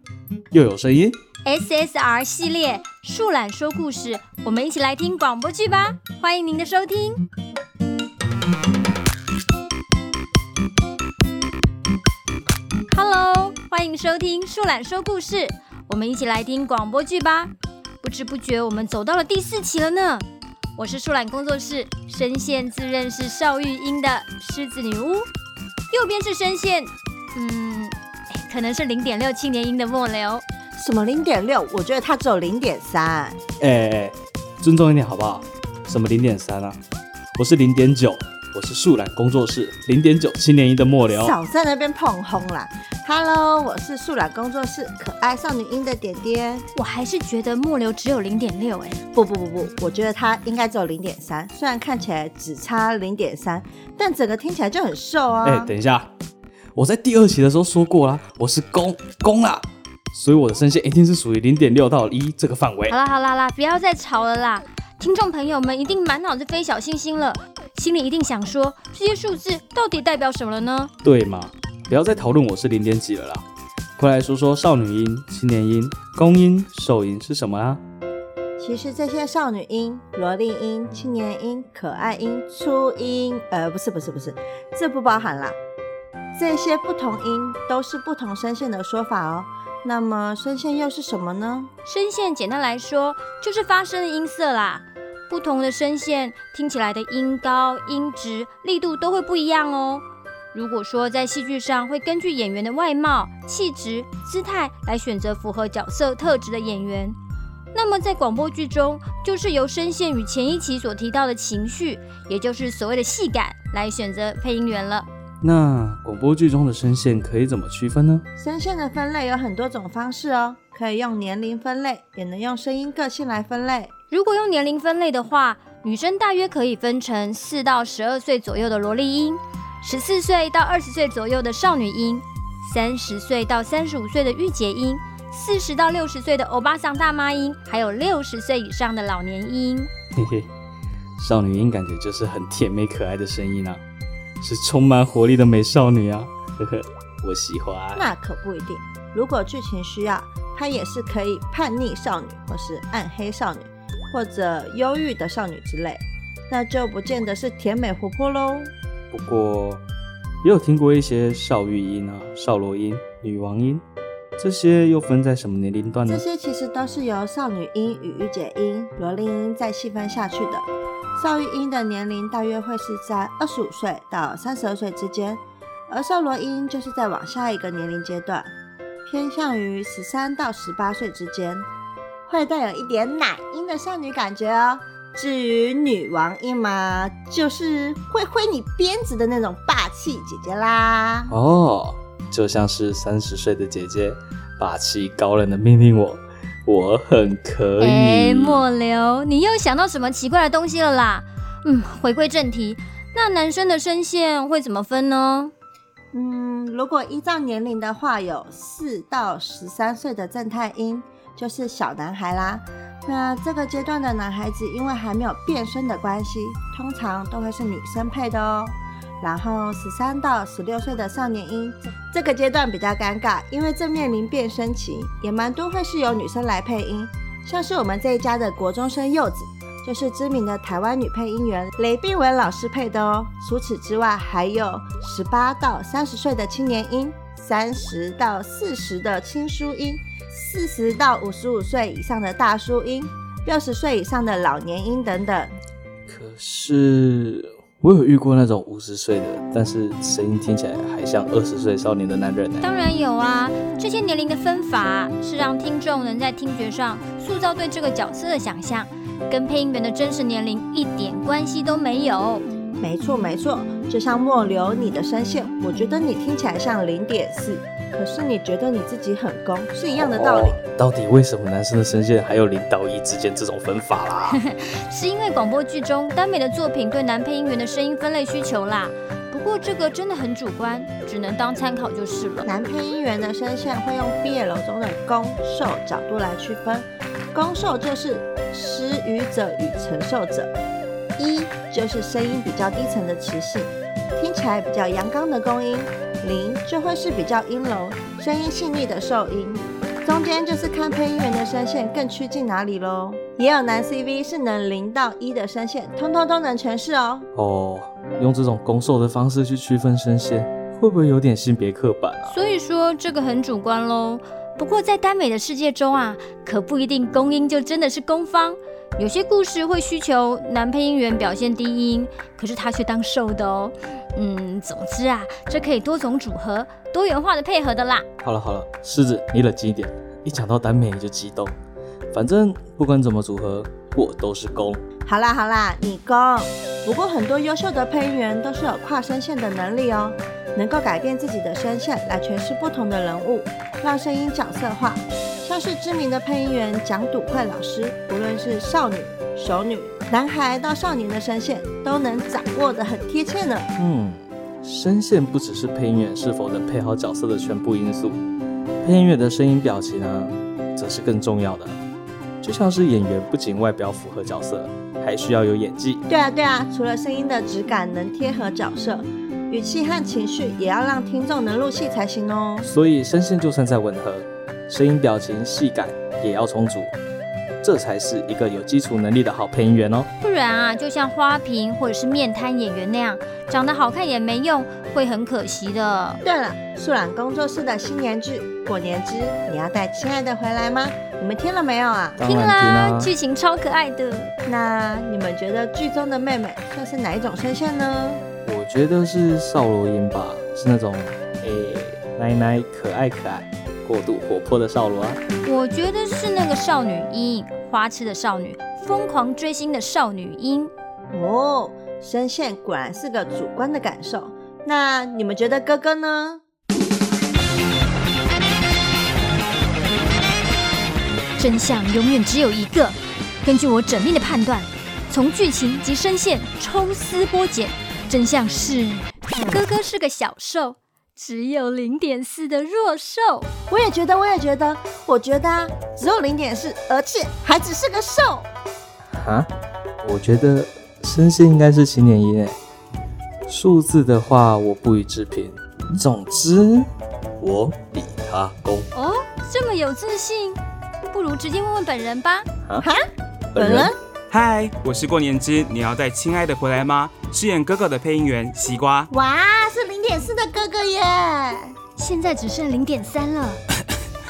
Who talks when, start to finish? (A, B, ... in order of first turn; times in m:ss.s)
0:00.5-0:01.2 A
0:01.4-0:07.2 B
0:12.9-0:20.2 B
0:20.8-0:25.3 B
0:25.9-0:30.4 B
0:30.8-0:33.4 C
0:33.6-0:36.8 A
0:37.4-0:41.3 A
0:41.1-0:46.7 C
0:46.7-0:49.0 B
0:49.1-0:55.7 C
0:55.4-0:56.1 A
0:56.8-1:03.0 A
1:02.9-1:10.9 B
1:11.0-1:13.4 A
1:14.0-1:17.8 A
1:18.6-1:25.6 C
1:26.4-1:31.7 C
1:31.9-1:47.2 B
1:47.7-1:55.1 B
1:55.4-1:58.2 A
1:58.4-2:03.9 C
2:04.1-2:19.9 B
2:20.2-2:20.5 A
2:21.2-2:23.8 A
2:24.4-2:28.1 A
2:28.0-2:38.7 C
2:39.1-2:39.8 A
2:40.4-2:43.8 A
2:44.4-2:46.2 A
2:46.1-2:58.5 C
2:59.1-3:01.7 C
3:02.3-3:11.3 C
3:11.3-3:18.6 A
3:17.8-3:25.5 B
3:26.1-4:05.5 C
4:06.1-4:12.7 A
4:12.6-4:22.4 B
4:22.8-4:30.6 C
4:29.9-4:34.4 A
4:34.3-4:42.5 B
4:42.4-4:50.5 C
4:51.2-5:07.3 C
5:07.4-5:12.4 A
5:12.3-5:28.1 B
5:28.2-5:31.6 A
5:32.1-5:34.8 A
5:35.0-5:53.7 C
5:53.8-5:58.2 A
5:58.8-6:01.8 A
6:02.4-6:06.0 A
6:06.1-6:12.7 C
6:12.6-6:16.9 A
6:17.6-6:20.1 A
6:20.2-6:26.2 B
6:26.2-6:32.2 C
6:32.2-6:33.1 A
6:32.2-6:34.3 B
6:34.5-6:38.2 C
6:38.4-6:45.2 A
6:45.4-6:50.7 B
6:51.1-6:56.4 C
7:01.4-7:13.5 B
7:13.7-7:18.5 C
7:19.1-7:19.5 A
7:20.0-7:22.6 A
7:23.5-7:28.9 A
7:28.9-7:30.6 B
7:31.1-7:32.5 B
7:33.6-7:33.9 A
7:33.6-7:34.0 C
7:34.3-7:39.1 D
7:39.1-7:41.8 C
7:42.0-7:43.6 B